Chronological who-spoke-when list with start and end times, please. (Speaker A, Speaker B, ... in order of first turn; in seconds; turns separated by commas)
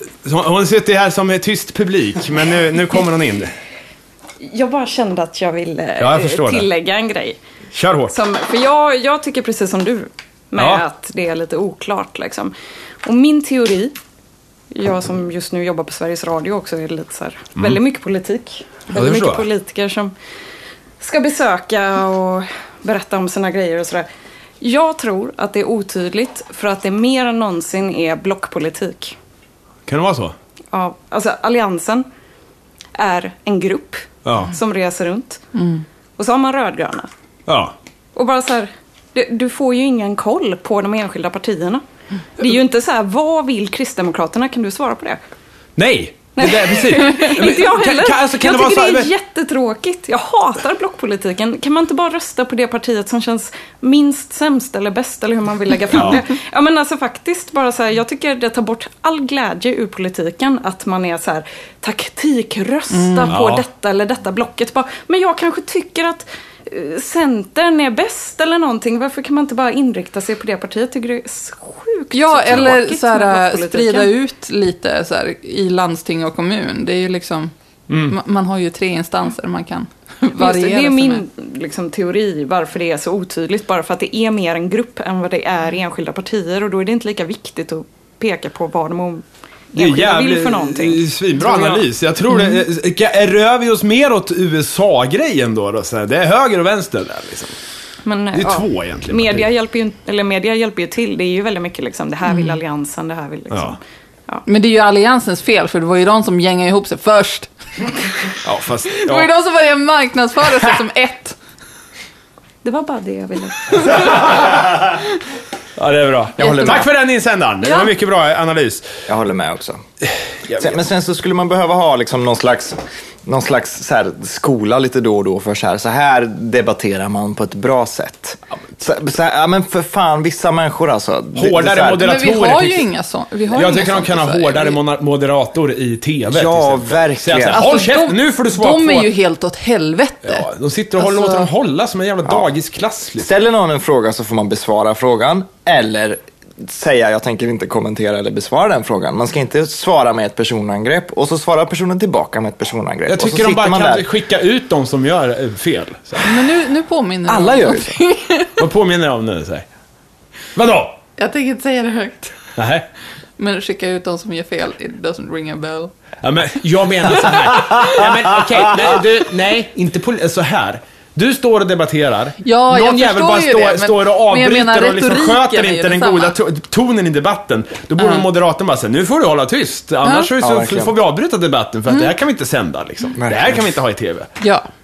Speaker A: 0.2-3.5, Speaker B: 4.4-7.4, Speaker A: 6.0-6.7, Speaker A: 7.7-8.1, Speaker B: 8.1-12.5, Speaker A: 10.6-10.8, Speaker B: 13.0-13.9, Speaker B: 14.7-20.1, Speaker A: 18.9-19.5, Speaker B: 21.0-24.1, Speaker B: 24.6-29.1, Speaker A: 29.9-30.3, Speaker B: 30.7-32.0, Speaker B: 33.0-35.4, Speaker A: 34.2-34.5, Speaker C: 35.5-35.8, Speaker B: 36.2-37.1, Speaker A: 37.5-37.7, Speaker B: 38.1-41.8, Speaker B: 42.4-45.2, Speaker A: 45.8-49.1, Speaker B: 46.4-74.1, Speaker A: 55.9-56.2, Speaker C: 62.9-63.3, Speaker A: 63.3-63.6, Speaker C: 72.1-77.5, Speaker A: 77.9-78.2, Speaker C: 78.1-81.2, Speaker B: 80.3-91.9, Speaker A: 89.7-97.5, Speaker C: 92.3-92.6, Speaker B: 98.0-103.8, Speaker A: 98.3-99.5, Speaker C: 102.2-102.6, Speaker A: 103.5-103.8, Speaker C: 104.4-107.5, Speaker A: 108.4-109.3, Speaker C: 108.9-111.3, Speaker B: 112.6-114.5, Speaker A: 114.3-114.7, Speaker A: 115.8-118.9, Speaker D: 116.4-116.9, Speaker B: 116.4-116.8, Speaker D: 119.1-119.8, Speaker A: 120.5-120.7, Speaker D: 120.5-132.1, Speaker A: 131.3-132.8, Speaker C: 132.0-134.8, Speaker A: 133.5-139.1, Speaker D: 136.3-137.7, Speaker C: 137.5-140.4, Speaker A: 140.2-143.3, Speaker C: 141.0-141.5, Speaker D: 143.2-154.0, Speaker A: 153.1-156.3, Speaker C: 156.2-158.6, Speaker D: 157.3-158.0, Speaker A: 158.6-159.6, Speaker A: 160.6-161.0, Speaker C: 161.2-162.3, Speaker A: 162.6-162.8, Speaker C: 163.4-165.9, Speaker A: 166.2-184.3, Speaker C: 167.7-167.9, Speaker C: 172.4-176.3, Speaker C: 180.0-180.3, Speaker D: 180.4-180.9, Speaker D: 183.2-183.7, Speaker C: 184.4-184.7